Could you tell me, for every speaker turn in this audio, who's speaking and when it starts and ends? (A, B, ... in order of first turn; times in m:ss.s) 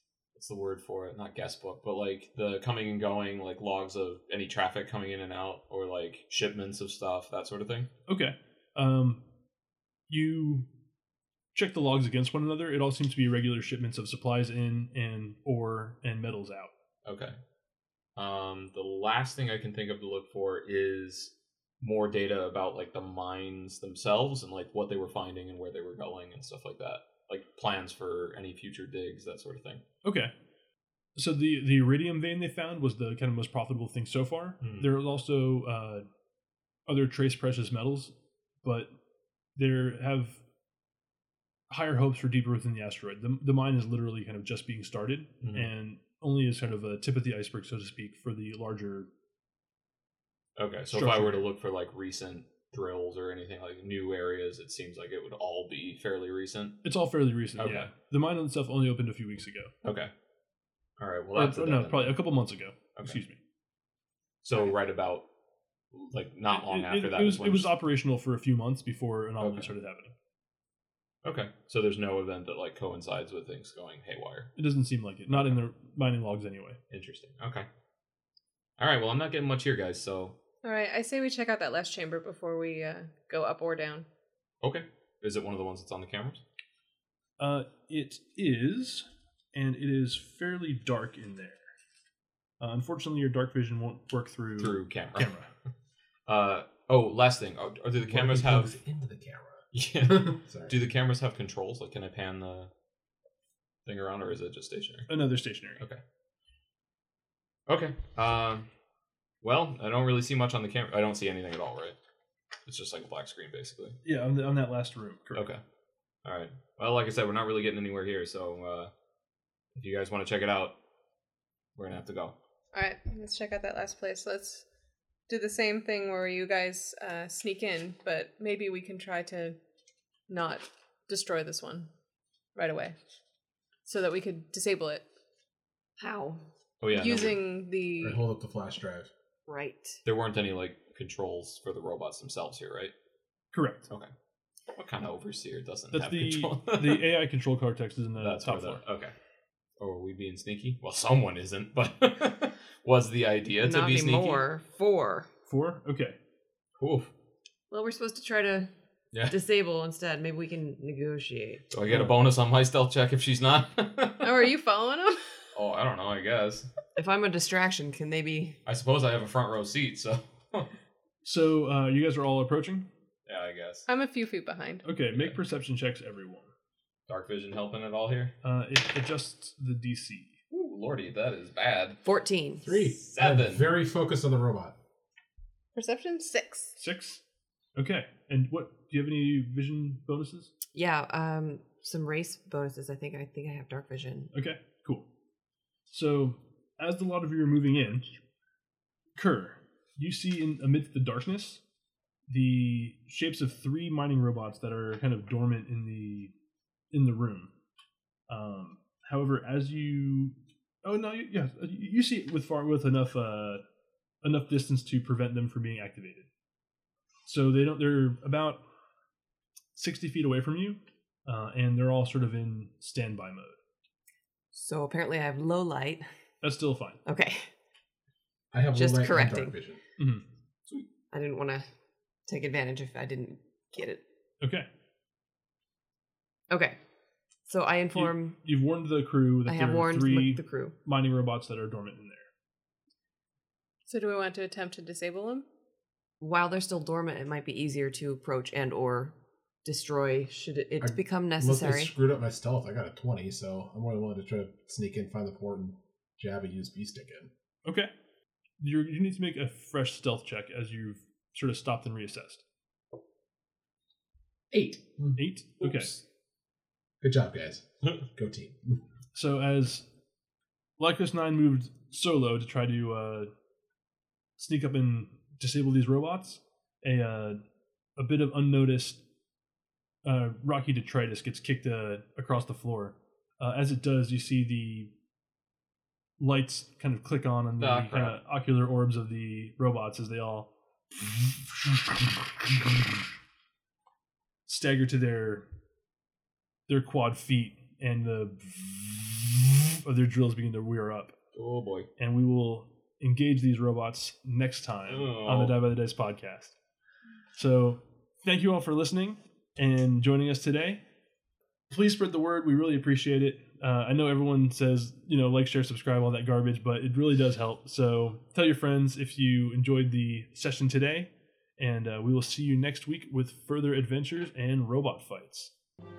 0:00.4-0:07.9 A
0:08.1-0:09.2 B
0:10.1-0:10.7 B
0:11.5-0:16.7 B
0:17.0-0:17.4 A
0:18.2-0:29.8 A
0:30.0-0:30.3 B
0:31.2-0:36.1 B
0:34.6-0:34.9 A
0:36.9-0:38.9 B
0:39.6-0:40.4 B
0:41.7-0:49.1 B
0:45.4-0:45.7 A
0:50.6-0:56.8 A
0:50.9-0:51.5 B
0:56.8-0:59.7 B
0:57.6-0:57.9 A
0:59.8-1:00.1 A
1:01.0-1:02.2 A
1:01.4-1:03.4 B
1:04.4-1:05.3 A
1:05.9-1:07.7 A
1:06.5-1:10.1 B
1:09.4-1:09.7 A
1:11.2-1:14.5 A
1:14.6-1:16.8 B
1:16.9-1:17.7 A
1:18.8-1:20.4 A
1:20.6-1:24.1 C
1:24.6-1:26.4 A
1:27.4-1:31.6 B
1:32.6-1:35.5 B
1:34.6-1:35.3 A
1:36.3-1:38.7 A
1:38.0-1:40.8 D
1:39.7-1:42.7 A
1:43.9-1:45.1 A
1:45.1-1:45.8 B
1:47.7-1:48.7 A
1:49.4-1:52.0 A
1:52.7-1:54.0 A
1:54.0-1:55.5 B
1:55.3-1:55.6 A
1:56.2-1:58.9 A
1:59.8-2:00.8 A
2:01.8-2:02.4 A
2:02.7-2:04.6 C
2:05.3-2:09.6 C
2:10.3-2:11.9 C
2:12.6-2:13.0 C
2:13.8-2:15.0 C
2:16.0-2:16.4 E
2:16.8-2:17.4 A
2:16.9-2:18.2 C
2:18.0-2:19.1 D
2:19.5-2:20.0 E
2:20.0-2:22.9 A
2:23.5-2:23.9 B
2:24.7-2:27.1 A
2:25.9-2:28.8 B
2:28.2-2:29.1 A
2:29.8-2:34.4 A
2:33.6-2:35.3 E
2:35.5-2:36.2 B
2:36.8-2:37.1 A
2:37.7-2:38.7 E
2:39.3-2:41.6 E
2:41.7-2:44.4 A
2:44.2-2:45.2 C
2:45.5-2:46.7 A
2:47.0-2:48.6 E
2:48.7-2:50.7 A
2:51.2-2:52.9 B
2:53.3-2:53.9 A
2:53.9-2:54.8 C
2:54.8-2:56.5 B
2:57.1-2:58.4 A
2:58.4-3:00.4 B
3:00.5-3:02.0 A
3:02.0-3:02.7 E
3:02.6-3:04.8 D
3:03.0-3:03.7 A
3:05.8-3:06.8 C
3:06.8-3:07.2 B
3:07.8-3:10.5 B
3:10.7-3:14.3 E
3:14.3-3:15.1 B
3:15.9-3:18.1 B
3:19.2-3:21.6 B
3:22.3-3:26.3 B
3:26.9-3:27.5 B
3:28.3-3:33.6 B
3:34.2-3:36.3 B
3:37.3-3:38.6 B
3:39.8-3:43.6 B
3:44.5-3:46.0 E
3:46.4-3:47.0 B
3:47.0-3:47.5 E
3:48.5-3:49.8 D
3:48.8-3:49.5 E
3:50.0-3:50.2 B
3:51.1-3:51.7 E
3:52.3-3:54.0 E
3:54.4-3:54.7 B
3:56.5-3:56.8 E
3:57.5-3:58.4 E
3:57.9-4:02.3 B
3:59.5-4:00.7 E
4:03.9-4:05.5 C
4:06.2-4:11.9 E
4:10.8-4:17.3 D
4:17.7-4:17.9 B
4:18.6-4:22.4 B
4:24.5-4:25.2 D
4:25.2-4:26.0 B
4:27.0-4:28.8 D
4:29.1-4:29.9 B
4:30.8-4:33.3 B
4:34.4-4:37.4 B
4:38.0-4:39.0 B
4:40.0-4:44.9 B
4:46.2-4:53.0 B
4:47.6-4:48.2 A
4:54.5-4:55.5 B
4:56.7-5:01.2 B
5:01.4-5:01.9 A
5:02.0-5:06.6 B
5:04.9-5:05.6 A
5:07.4-5:10.8 B
5:11.7-5:25.5 B